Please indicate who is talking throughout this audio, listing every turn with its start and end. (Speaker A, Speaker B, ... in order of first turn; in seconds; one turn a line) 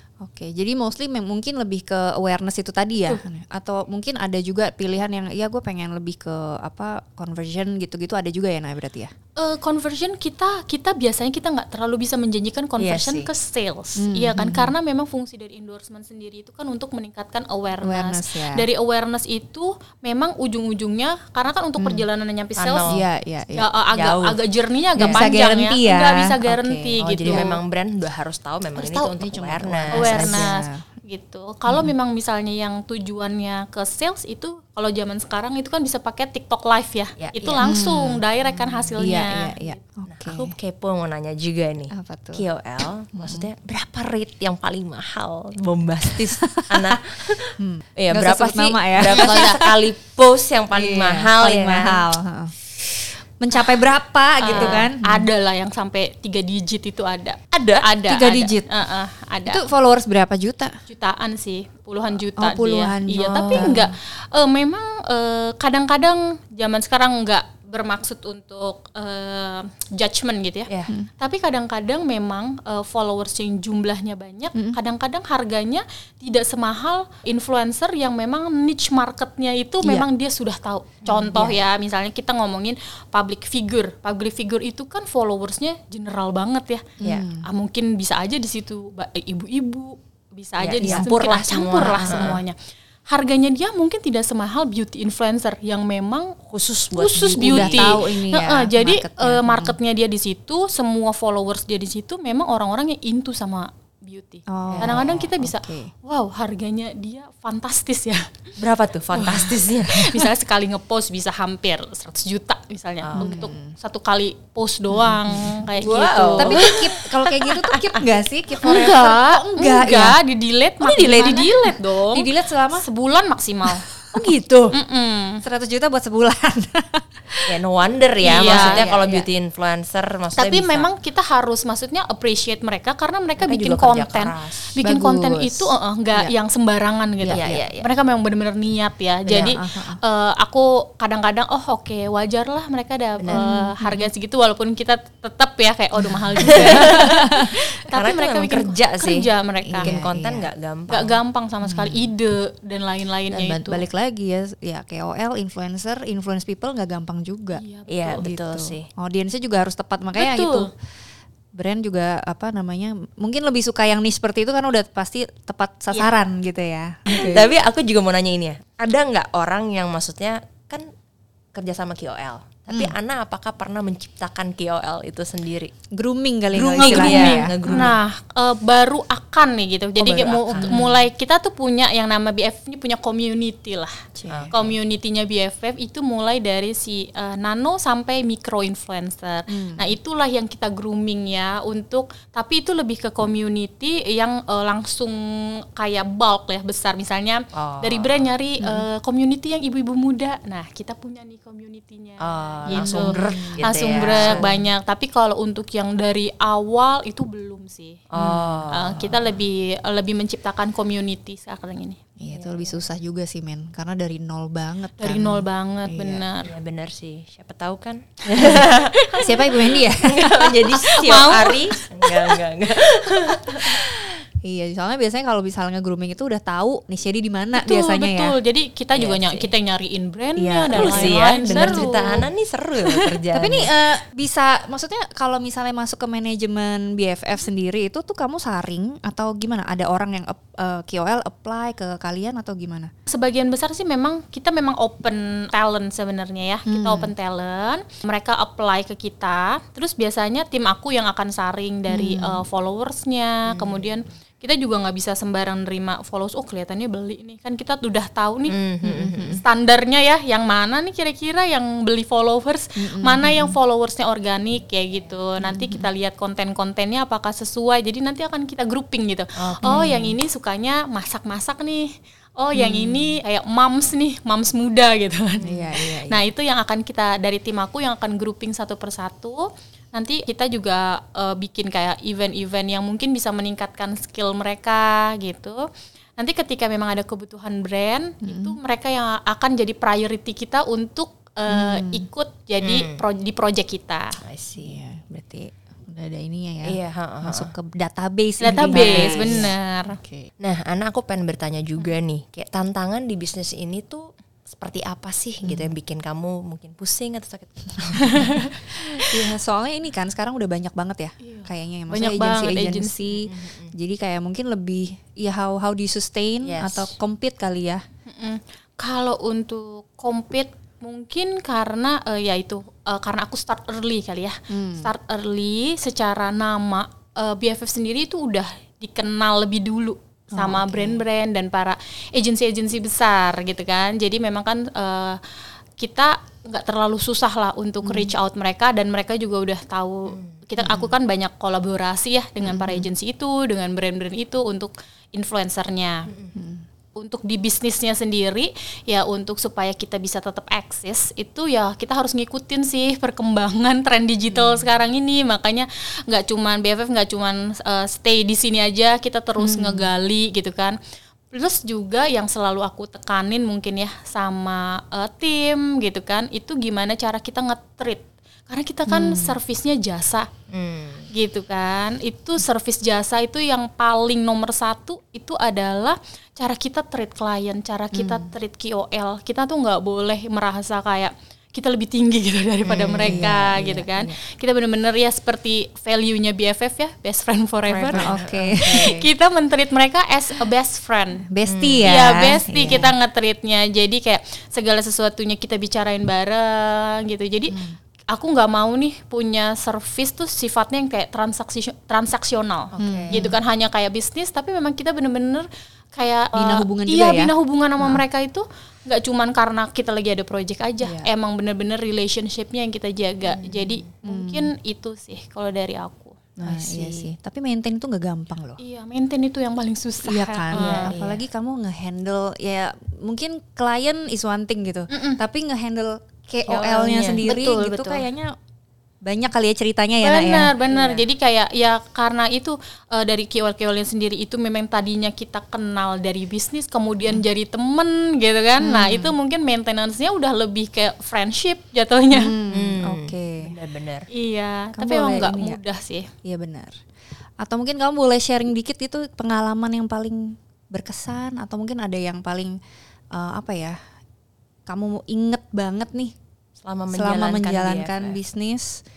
Speaker A: 0.2-9.1
Speaker B: 9.4-23.0
Speaker C: 12.8-13.3
Speaker A: 14.0-14.7
Speaker A: 17.8-18.6
Speaker A: 21.8-22.0
Speaker C: 22.6-23.0
Speaker A: 22.9-23.7
Speaker B: 23.5-27.6
Speaker C: 23.9-24.4
Speaker C: 25.0-25.2
Speaker A: 25.0-27.5
Speaker C: 27.0-30.5
Speaker B: 28.8-29.1
Speaker A: 29.1-30.8
Speaker B: 29.9-39.8
Speaker A: 31.7-31.9
Speaker C: 37.2-37.7
Speaker A: 37.6-38.2
Speaker A: 39.0-40.5
Speaker C: 40.1-52.0
Speaker A: 41.9-42.4
Speaker A: 43.1-43.5
Speaker A: 46.2-47.0
Speaker A: 47.6-49.8
Speaker A: 50.7-52.5
Speaker A: 53.4-55.3
Speaker B: 54.4-59.6
Speaker C: 54.5-54.9
Speaker C: 57.5-57.9
Speaker A: 58.1-58.7
Speaker A: 59.5-60.8
Speaker B: 60.9-92.5
Speaker A: 62.4-63.9
Speaker C: 63.3-63.8
Speaker A: 79.8-80.1
Speaker C: 81.0-81.5
Speaker A: 87.0-87.5
Speaker C: 90.6-92.4
Speaker A: 90.8-92.4
Speaker B: 93.1-96.3
Speaker C: 96.5-98.0
Speaker B: 96.9-108.3
Speaker A: 97.3-99.8
Speaker A: 104.5-105.9
Speaker C: 104.7-105.2
Speaker C: 108.6-110.2
Speaker B: 109.2-116.7
Speaker C: 113.0-113.3
Speaker A: 113.2-113.7
Speaker A: 114.9-115.7
Speaker C: 115.8-118.0
Speaker A: 116.3-120.2
Speaker B: 118.6-123.9
Speaker C: 118.6-118.9
Speaker C: 120.8-121.5
Speaker A: 120.9-121.5
Speaker A: 122.1-122.8
Speaker C: 124.1-124.7
Speaker B: 124.7-125.4
Speaker A: 125.4-127.5
Speaker C: 127.5-130.9
Speaker B: 128.2-128.9
Speaker A: 128.2-129.3
Speaker B: 130.3-150.0
Speaker C: 133.4-134.7
Speaker A: 134.8-136.3
Speaker A: 137.2-137.6
Speaker C: 137.3-137.9
Speaker C: 139.3-139.6
Speaker A: 139.3-140.0
Speaker C: 143.2-143.4
Speaker A: 143.3-144.1
Speaker A: 146.0-147.5
Speaker C: 146.4-151.2
Speaker A: 149.7-150.5
Speaker B: 150.9-153.8
Speaker A: 151.6-152.0
Speaker C: 153.3-153.8
Speaker A: 153.7-157.6
Speaker B: 157.5-158.2
Speaker C: 157.9-158.9
Speaker A: 158.1-160.7
Speaker B: 160.2-160.7
Speaker A: 161.5-167.5
Speaker C: 167.1-170.9
Speaker C: 171.5-175.7
Speaker A: 175.9-177.9
Speaker C: 176.5-178.0
Speaker B: 176.8-184.0
Speaker A: 180.0-180.9
Speaker C: 180.3-181.0
Speaker A: 184.1-184.5
Speaker C: 184.3-184.7
Speaker B: 184.5-208.1
Speaker A: 189.5-189.8
Speaker C: 197.5-198.3
Speaker C: 202.2-204.5
Speaker A: 202.7-204.7
Speaker C: 208.1-209.2
Speaker A: 208.2-208.5
Speaker B: 208.7-212.0
Speaker A: 212.2-216.2
Speaker C: 212.3-212.6
Speaker B: 215.0-216.5
Speaker C: 216.4-218.9
Speaker B: 218.3-219.5
Speaker A: 219.2-220.7
Speaker C: 219.9-223.8
Speaker B: 220.7-223.6
Speaker A: 224.4-228.3
Speaker B: 227.6-232.2
Speaker C: 228.9-229.5
Speaker A: 230.4-232.2
Speaker C: 230.7-233.7
Speaker A: 233.3-242.9
Speaker B: 243.1-258.5
Speaker A: 246.7-247.1
Speaker A: 251.9-252.4
Speaker C: 253.5-253.9
Speaker C: 258.5-259.4
Speaker A: 258.8-259.4
Speaker B: 259.4-285.6
Speaker A: 262.8-263.6
Speaker A: 265.4-265.9
Speaker C: 269.4-270.0
Speaker A: 269.6-270.1
Speaker A: 272.5-273.1
Speaker C: 275.4-275.7
Speaker A: 275.4-276.2
Speaker B: 286.2-294.2
Speaker A: 288.2-288.6
Speaker A: 291.5-292.1
Speaker C: 292.6-293.0
Speaker C: 294.2-294.8
Speaker A: 294.6-300.3
Speaker C: 296.6-297.5
Speaker B: 298.4-300.0
Speaker C: 298.6-299.5
Speaker C: 300.4-308.7
Speaker A: 305.4-305.7
Speaker B: 308.0-309.1
Speaker A: 309.1-317.8
Speaker B: 311.2-313.2
Speaker C: 313.2-313.7
Speaker C: 316.4-316.9
Speaker B: 318.1-335.2
Speaker A: 324.5-324.9
Speaker A: 330.3-331.0
Speaker B: 335.8-346.1
Speaker A: 337.8-338.1
Speaker A: 340.6-340.9
Speaker A: 342.4-342.9
Speaker A: 346.3-346.6
Speaker B: 346.9-360.8
Speaker A: 354.3-354.6
Speaker A: 359.4-359.9
Speaker B: 361.3-370.3
Speaker A: 368.9-369.4
Speaker C: 370.5-371.1
Speaker B: 371.1-391.2
Speaker A: 377.9-378.3
Speaker C: 382.6-383.2
Speaker A: 383.0-384.2
Speaker C: 387.7-389.0
Speaker A: 387.9-388.9
Speaker A: 391.2-392.9
Speaker C: 391.5-391.9
Speaker B: 391.8-397.6
Speaker A: 397.5-397.8
Speaker B: 398.1-416.3
Speaker C: 402.7-403.3
Speaker A: 402.8-403.3
Speaker A: 406.3-408.0
Speaker A: 410.8-411.1
Speaker C: 413.4-413.6
Speaker A: 414.0-414.5
Speaker A: 416.4-418.6
Speaker C: 416.4-417.1
Speaker B: 418.6-420.9
Speaker A: 420.0-428.3
Speaker C: 420.5-421.2
Speaker B: 424.9-425.2
Speaker C: 426.5-427.2
Speaker B: 427.2-428.0
Speaker A: 429.0-430.6
Speaker B: 430.0-442.3
Speaker C: 430.7-431.0
Speaker A: 438.6-439.1
Speaker A: 442.1-443.5
Speaker C: 442.5-444.1
Speaker B: 444.1-446.1
Speaker A: 444.7-445.6
Speaker A: 446.2-446.8
Speaker A: 447.4-452.6
Speaker A: 453.1-453.8
Speaker A: 454.6-456.1
Speaker C: 456.6-458.2
Speaker A: 456.9-458.8